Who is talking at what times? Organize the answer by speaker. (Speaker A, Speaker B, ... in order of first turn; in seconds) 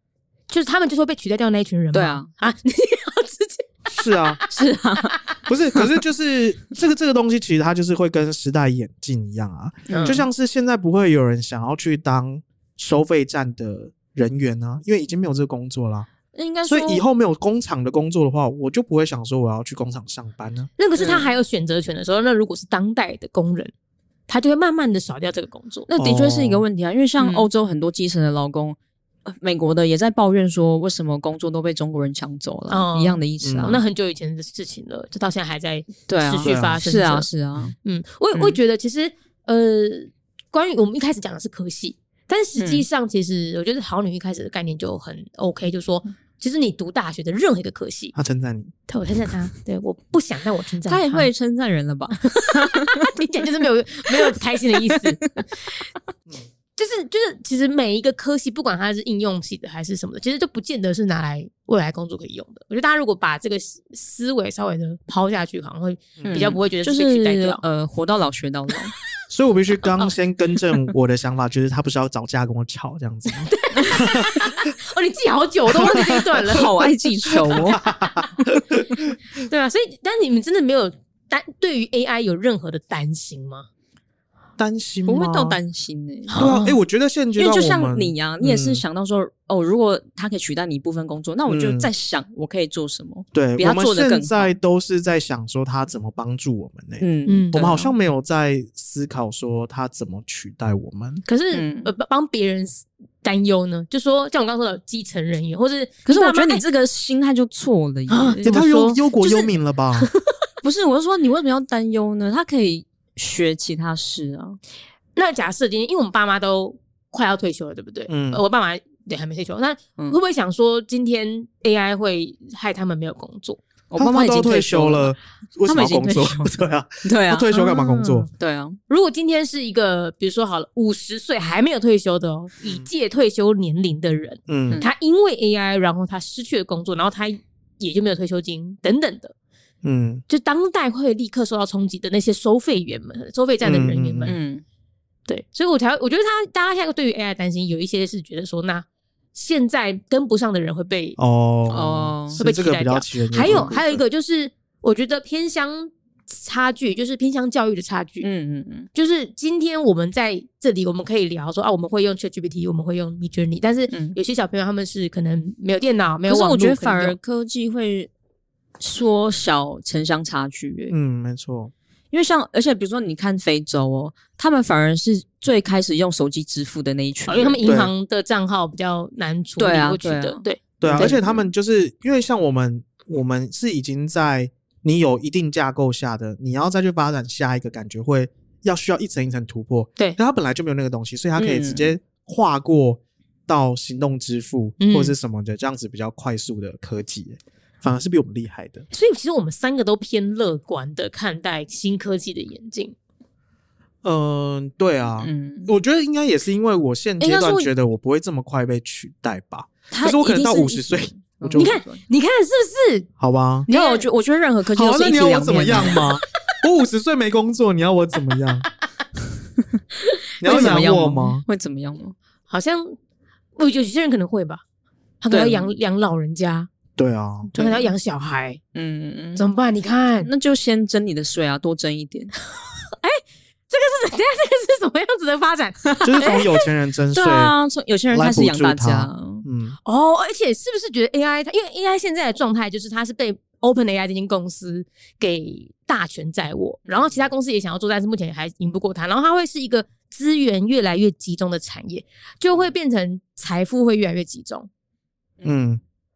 Speaker A: 0.5-5.3, 9.9-10.2, 20.8-23.7, 24.3-25.9, 27.2-27.5, 32.7-37.3, 37.8-48.1, 48.9-51.3, 52.3-55.2, 56.8-67.6, 73.4-77.9, 79.5-83.7, 86.3-86.8, 97.2-97.5, 101.3-106.6, 108.1-110.2, 115.2-123.6, 127.5-128.3, 128.9-139.3, 140.3-144.4, 145.3-151.2, 152.4-158.3, 158.9-167.2, 177.3-181.2, 194.8-195.1, 198.9-202.9, 211.5-213.1, 213.7-214.1, 220.4-220.8, 222.5-223.0, 223.6-224.6, 225.2-226.7, 227.5-228.6, 229.3-230.3, 232.8-236.5, 239.8-254.7
Speaker B: 1.9-2.3, 4.5-5.2, 9.9-10.2, 16.3-17.0, 21.0-21.3, 25.9-33.8, 36.1-37.7, 42.6-42.9, 50.9-53.1, 54.8-55.4, 66.2-68.9, 76.5-77.8, 85.0-86.5, 87.4-94.5, 97.0-97.9, 101.5-101.9, 106.0-108.5, 110.6-114.6, 123.9-127.6, 128.4-128.8, 144.2-144.6, 151.7-152.4, 158.2-158.9, 163.9-164.2, 166.3-168.1, 168.8-170.9, 172.1-177.7, 179.6-181.4, 191.3-191.9, 205.2-205.7, 207.2-207.7, 209.9-212.0, 213.7-216.1, 220.4-222.1, 225.3-225.7, 227.5-227.9, 228.7-229.4, 230.2-232.3, 237.1-239.4
Speaker C: 3.9-4.4, 5.5-16.1, 16.6-20.7, 25.9-26.6, 33.4-33.8, 36.4-36.8, 48.1-48.7, 66.2-66.5, 69.3-74.5, 77.6-79.0, 84.6-85.6, 86.3-88.8, 91.5-91.9, 93.3-101.2, 108.4-110.1, 118.1-118.4, 124.0-128.3, 134.5-134.8, 139.8-140.2, 143.6-144.4, 151.2-154.0, 170.9-171.7, 177.7-177.9, 180.8-198.8, 204.0-211.7, 213.2-213.7, 214.7-218.7, 220.4-221.4, 227.0-227.5, 236.0-237.5, 238.1-239.8, 255.4-255.8